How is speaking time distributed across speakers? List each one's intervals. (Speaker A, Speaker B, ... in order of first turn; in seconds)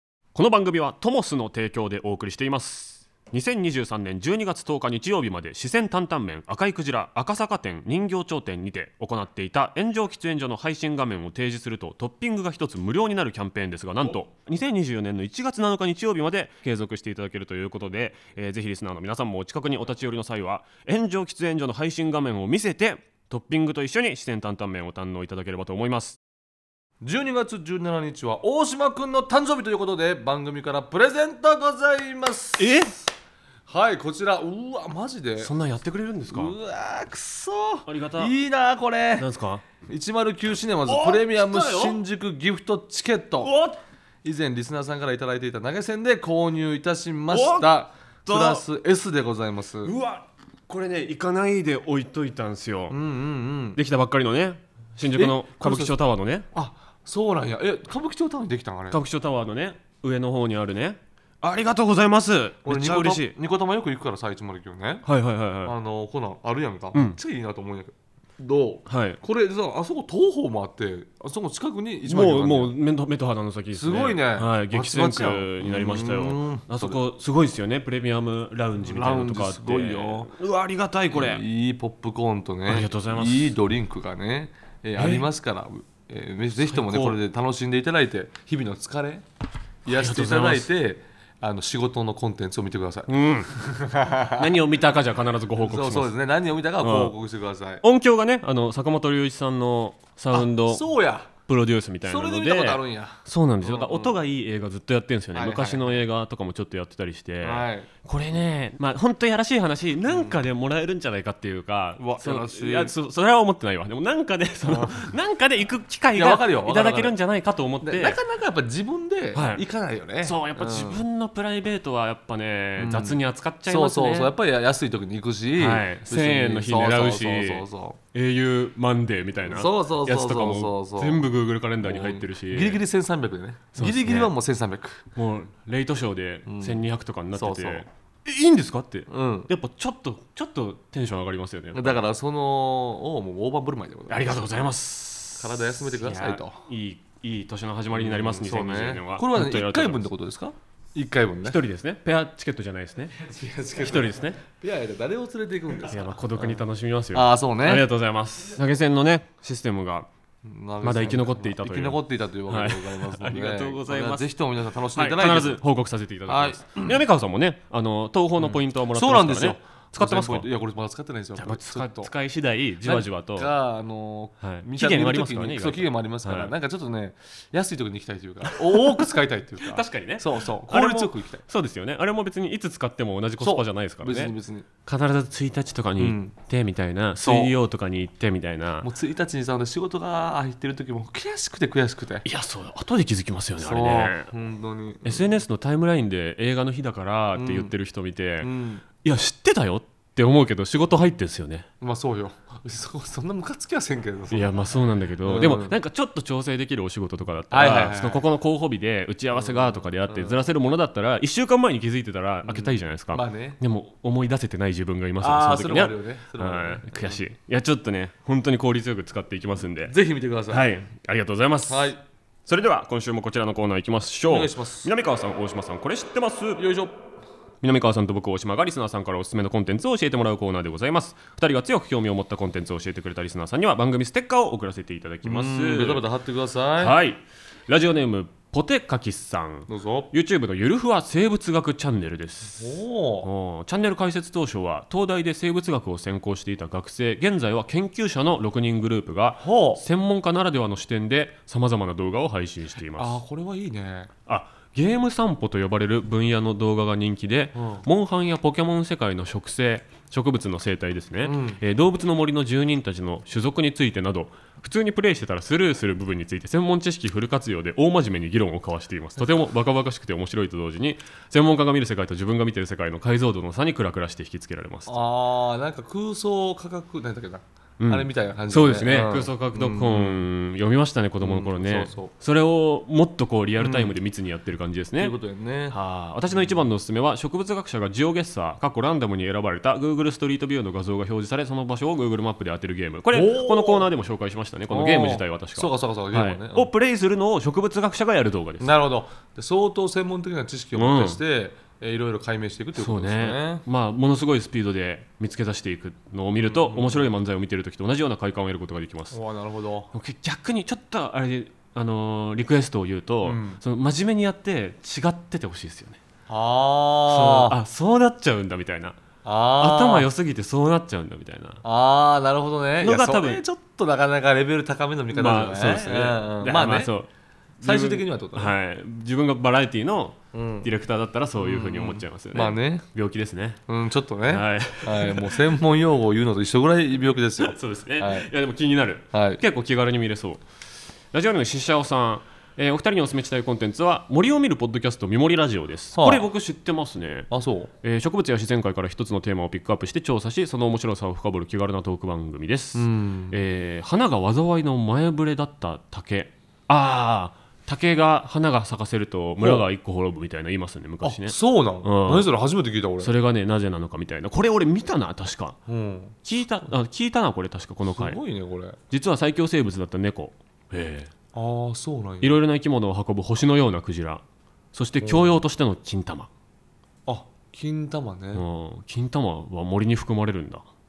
Speaker A: 0.3-26.2, 32.6-33.0, 35.4-36.6, 37.9-38.3, 39.2-39.6, 40.9-42.0, 43.4-43.8, 47.3-47.7, 48.3-48.6, 49.8-53.0, 53.8-56.5, 58.9-63.3, 65.0-65.7, 68.9-69.2, 72.0-81.4, 82.7-83.6, 85.0-85.3, 86.6-87.2, 89.9-90.7, 93.1-93.5, 94.3-96.1, 96.8-97.1, 97.8-100.9, 101.5-118.2, 119.3-119.6, 120.2-124.3, 125.6-132.8, 133.8-134.3, 135.2-142.0, 144.1-150.1, 151.4-153.1, 153.8-154.4, 155.9-160.1, 160.8-164.3, 164.9-170.5, 171.4-173.5, 174.4-176.5, 178.5-179.1, 179.6-184.3, 184.8-188.9, 192.2-194.3, 195.0-198.5, 199.0-201.7, 204.3-219.9, 220.5-221.9, 222.5-226.7, 227.6-236.1, 236.8-253.2, 254.3-275.0, 277.8-285.1, 285.7-298.7, 300.8-301.2, 302.8-309.2, 309.9-316.0, 317.1-319.0, 319.6-321.6, 322.8-323.4, 325.1-327.1, 327.6-333.6, 334.3-335.4, 337.4-340.4, 341.1-347.3, 347.8-362.3, 363.0-365.6, 366.2-368.2, 368.9-371.1, 372.2-376.3, 378.3-380.7
Speaker B: 27.0-32.8, 33.7-35.5, 36.3-43.5, 44.2-49.9, 52.9-53.8, 55.1-56.0, 56.5-59.0, 62.6-65.1, 65.6-72.7, 73.7-77.0, 78.8-80.3, 81.1-89.2, 89.8-94.5, 95.6-97.8, 100.3-101.3, 102.1-104.2, 105.3-106.0, 107.4-107.9, 110.1-110.4, 112.0-112.9, 114.7-115.0, 116.2-117.2, 117.8-121.0, 122.8-128.0, 129.4-131.2, 131.8-135.1, 136.5-136.8, 137.3-137.9, 139.1-139.5, 141.7-144.4, 145.4-146.6, 147.9-151.6, 153.2-157.9, 160.4-165.6, 166.3-167.0, 168.4-172.1, 172.8-181.4, 183.4-184.7, 186.0-186.3, 187.2-187.5, 188.8-192.2, 193.6-195.3, 197.3-197.7, 198.4-198.8, 201.8-204.5, 205.2-205.8, 207.5-208.2, 209.3-210.4, 212.4-213.6, 215.2-217.2, 219.9-220.7, 221.7-222.0, 224.3-224.9, 226.6-226.9, 235.2-237.0, 239.7-240.1, 242.6-243.3, 249.4-249.8, 253.0-254.1, 257.6-257.9, 261.2-261.6, 274.9-280.3, 281.2-282.1, 283.6-284.0, 285.0-285.8, 286.3-286.7, 293.1-293.9, 294.7-296.7, 298.6-303.6, 306.4-307.1, 309.1-309.9, 313.2-313.6, 316.3-317.6, 319.2-320.1, 321.6-326.9, 327.6-328.5, 330.3-330.7, 331.4-332.9, 333.7-338.3, 339.1-339.4, 345.9-346.3, 347.3-347.7, 352.8-353.4, 361.0-363.1, 365.7-366.1, 367.9-368.8, 371.3-372.3, 375.0-375.4, 377.1-378.4